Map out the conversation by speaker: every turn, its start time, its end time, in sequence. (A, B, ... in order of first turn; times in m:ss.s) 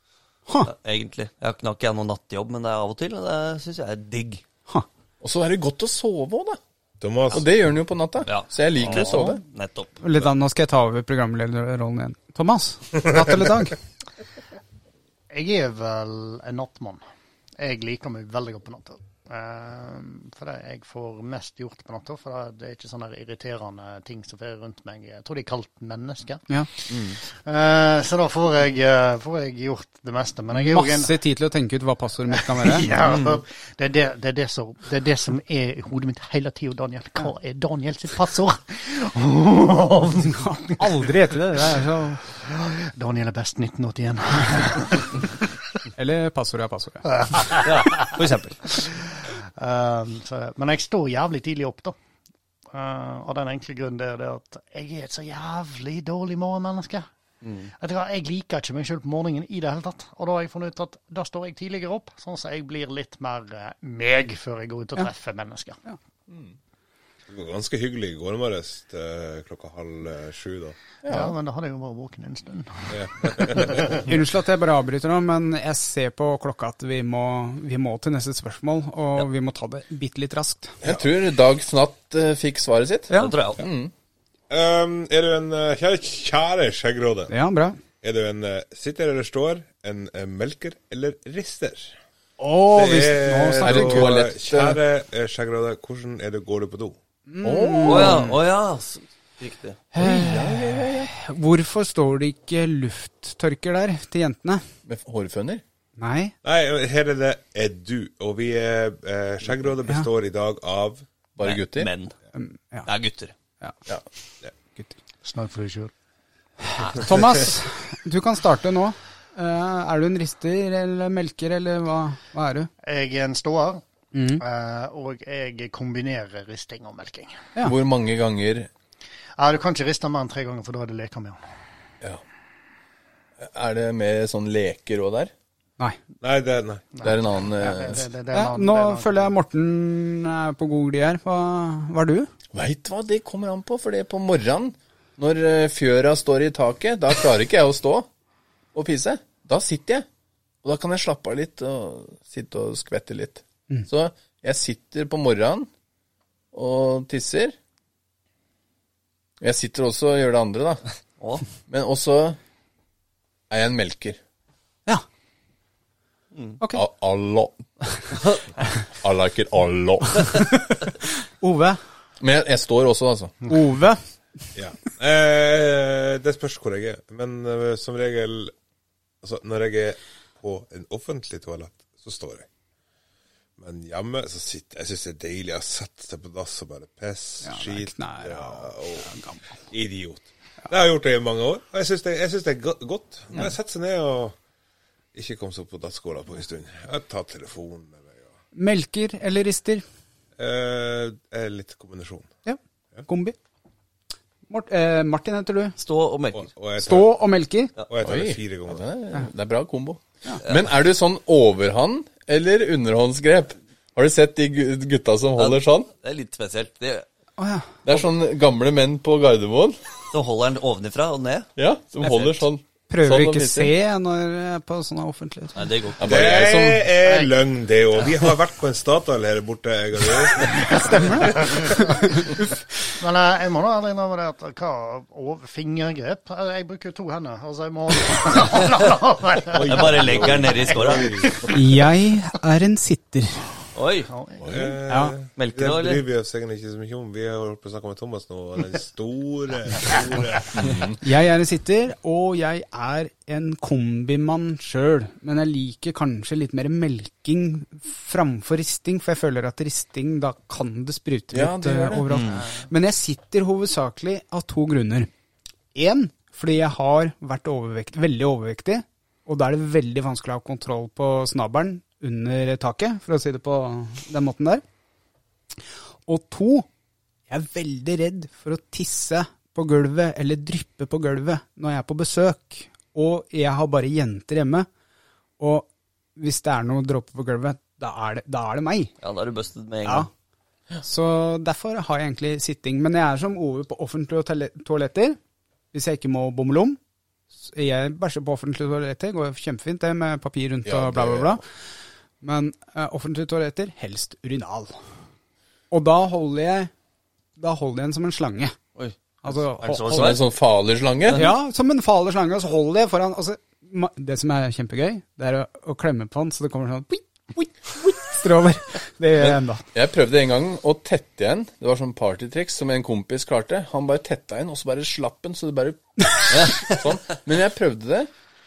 0:00.6-0:04.4 A
0:05.2-0:06.6 B
0:07.0-0:07.4 C
0:07.3-0:09.4 B
0:08.3-0:10.0 A
0:10.0-0:13.8 D
0:15.3-0:17.0 E
0:17.6-0:26.5 E
0:26.9-0:27.2 A
0:27.2-0:31.1 E
0:30.6-0:32.9 D
0:32.4-0:40.7 E
0:32.9-0:33.4 A
0:40.3-0:42.2 D
0:42.4-0:45.3 E
0:46.0-0:47.1 D
0:47.2-0:48.1 E
0:47.6-0:48.7 A
0:48.7-0:52.0 E
0:52.7-0:57.1 E
0:57.4-0:57.7 A
0:57.8-1:05.8 E
1:06.3-1:06.5 B
1:07.3-1:10.8 C
1:11.0-1:11.3 B
1:11.1-1:14.0 E
1:12.9-1:14.0 C
1:14.0-1:20.8 D
1:20.8-1:23.9 B
1:23.1-1:23.6 A
1:24.5-1:27.3 C
1:27.3-1:27.8 D
1:28.0-1:32.0 C
1:32.4-1:34.2 D
1:32.7-1:37.0 C
1:33.6-1:34.8 B
1:37.3-1:38.4 D
1:37.4-1:38.3 B
1:37.9-1:39.8 A
1:39.9-1:44.6 D
1:40.0-1:41.1 B
1:44.9-1:45.6 B
1:46.0-1:46.3 D
1:46.4-1:51.1 C
1:51.4-1:51.9 B
1:51.4-1:52.1 A
1:52.3-1:52.9 D
1:52.9-1:53.3 A
1:55.2-1:55.9 E
1:56.8-2:02.7 D
2:02.8-2:03.8 E
2:04.1-2:04.4 D
2:04.4-2:07.4 E
2:07.6-2:08.7 B
2:09.4-2:11.4 E
2:13.4-2:15.3 B
2:16.2-2:16.8 C
2:17.0-2:19.3 E
2:17.0-2:18.0 B
2:18.3-2:22.3 D
2:22.5-2:28.1 B
2:28.7-2:30.1 B
2:30.6-2:35.7 B
2:36.5-2:37.6 B
2:39.4-2:40.8 B
2:41.2-2:41.4 A
2:41.7-2:42.4 B
2:43.5-2:44.2 B
2:46.3-2:46.6 A
2:46.7-2:47.8 B
2:49.0-2:50.3 B
2:51.4-2:51.8 D
2:52.2-2:53.5 B
2:53.5-2:54.0 D
2:54.6-2:58.5 C
2:59.2-3:02.5 C
3:03.6-3:09.2 C
3:07.4-3:09.5 D
3:09.7-3:14.4 C
3:15.1-3:18.3 C
3:18.6-3:19.8 D
3:20.4-3:22.3 C
3:22.4-3:23.4 D
3:24.5-3:25.8 D
3:25.8-3:26.5 A
3:26.3-3:27.2 C
3:26.8-3:27.7 D
3:27.9-3:28.8 C
3:28.0-3:35.9 B
3:35.4-3:37.1 A
3:37.4-3:37.8 D
3:37.9-3:39.9 B
3:40.1-3:41.5 A
3:41.6-3:43.7 B
3:42.0-3:45.6 D
3:45.6-3:46.1 A
3:46.0-3:46.9 B
3:46.0-3:51.4 C
3:47.0-3:47.3 E
3:50.5-3:52.2 E
3:50.7-3:52.5 D
3:53.0-4:01.6 E
3:59.5-4:01.5 C
3:59.7-4:01.2 A
4:01.5-4:03.5 D
4:03.8-4:04.1 A
4:04.1-4:04.5 E
4:04.4-4:04.8 B
4:04.5-4:10.8 C
4:04.9-4:05.2 D
4:05.4-4:06.0 A
4:10.6-4:11.0 B
4:11.0-4:25.1 D
4:21.3-4:22.1 B
4:22.1-4:22.4 A
4:22.4-4:22.7 E
4:25.8-4:34.6 D
4:36.1-4:36.7 D
4:37.3-4:44.7 D
4:45.4-4:48.9 D
4:49.0-4:50.1 A
4:50.8-4:55.2 D
4:55.7-4:56.8 D
4:57.4-5:01.4 D
5:00.6-5:01.4 B
5:02.2-5:04.8 D
5:05.7-5:06.7 D
5:07.4-5:08.6 D
5:08.8-5:10.2 A
5:09.2-5:10.2 D
5:09.9-5:11.3 B
5:11.1-5:19.6 D
5:19.2-5:28.1 B
5:26.3-5:26.8 A